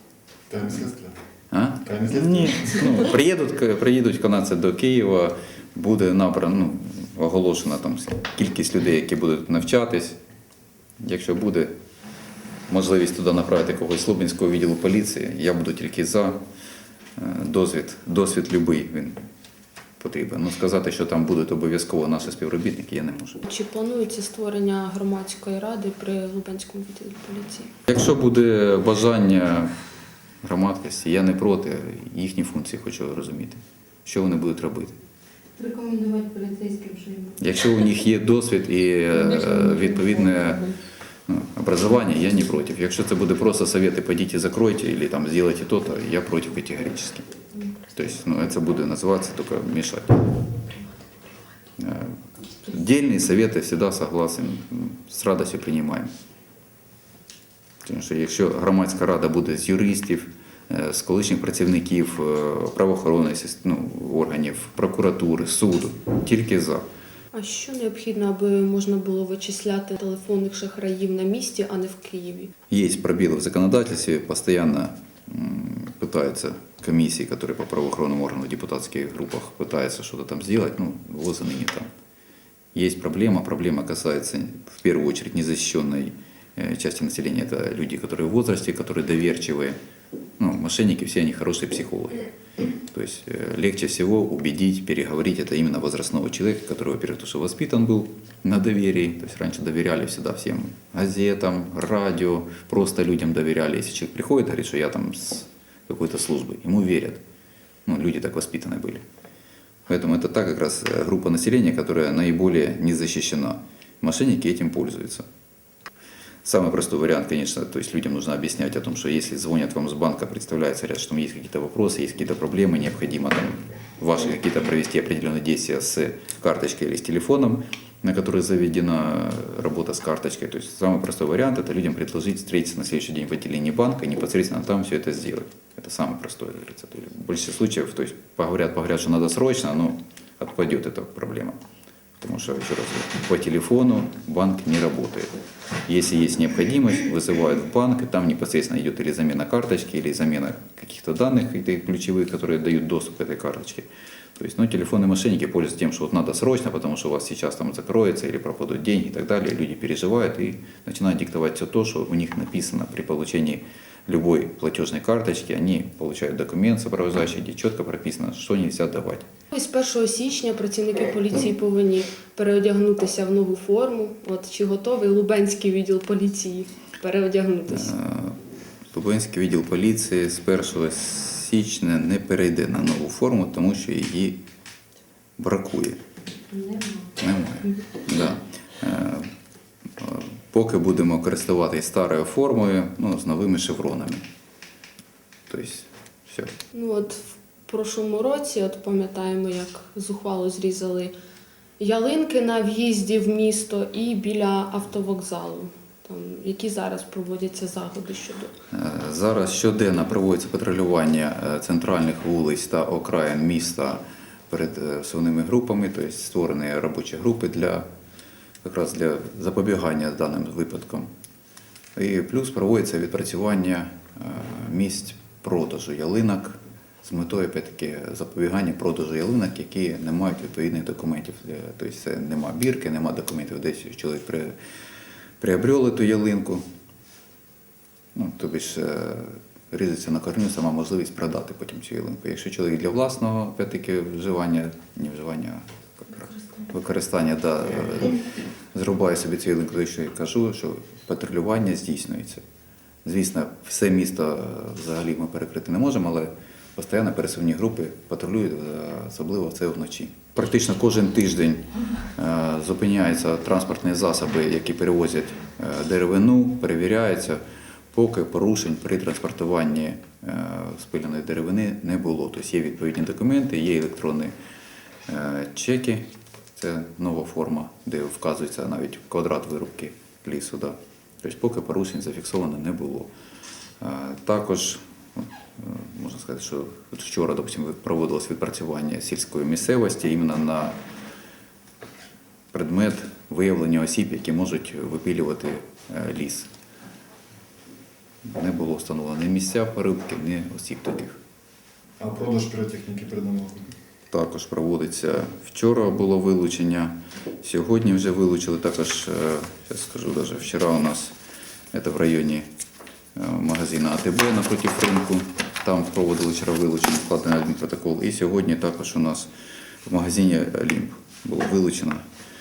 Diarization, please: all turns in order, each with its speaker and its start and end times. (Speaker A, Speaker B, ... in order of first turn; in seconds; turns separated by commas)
Speaker A: 0.5-1.2, Speaker B: 1.5-10.2, Speaker A: 1.8-2.8, Speaker B: 11.0-11.7, Speaker B: 12.7-16.4, Speaker B: 17.2-19.2, Speaker B: 20.0-23.4, Speaker C: 23.4-27.7, Speaker B: 27.9-29.7, Speaker B: 30.4-35.0, Speaker D: 35.5-37.4, Speaker B: 37.4-47.3, Speaker B: 47.8-50.6, Speaker B: 51.8-56.1, Speaker B: 57.8-66.8, Speaker C: 67.3-72.5, Speaker B: 72.7-81.9, Speaker B: 82.7-89.8, Speaker B: 90.4-107.2, Speaker B: 107.8-109.0, Speaker B: 109.9-115.2, Speaker B: 116.4-141.6, Speaker B: 142.2-145.3, Speaker B: 145.8-169.3, Speaker C: 169.5-177.9, Speaker B: 177.7-178.4, Speaker B: 178.9-184.4, Speaker B: 185.4-186.0, Speaker D: 186.5-187.1, Speaker B: 187.2-189.3, Speaker B: 190.0-194.2, Speaker B: 195.5-196.5, Speaker C: 196.7-201.1, Speaker C: 201.8-208.5, Speaker B: 208.7-217.8, Speaker B: 218.6-221.1, Speaker B: 221.9-234.5, Speaker B: 235.4-236.6, Speaker B: 238.1-252.4, Speaker B: 253.0-267.4, Speaker B: 267.9-274.3, Speaker B: 275.1-283.1, Speaker B: 283.8-290.8, Speaker B: 292.5-296.5, Speaker B: 298.3-301.1, Speaker A: 302.0-303.8, Speaker B: 304.1-311.1, Speaker B: 311.7-312.5, Speaker B: 313.1-319.3, Speaker B: 319.8-322.0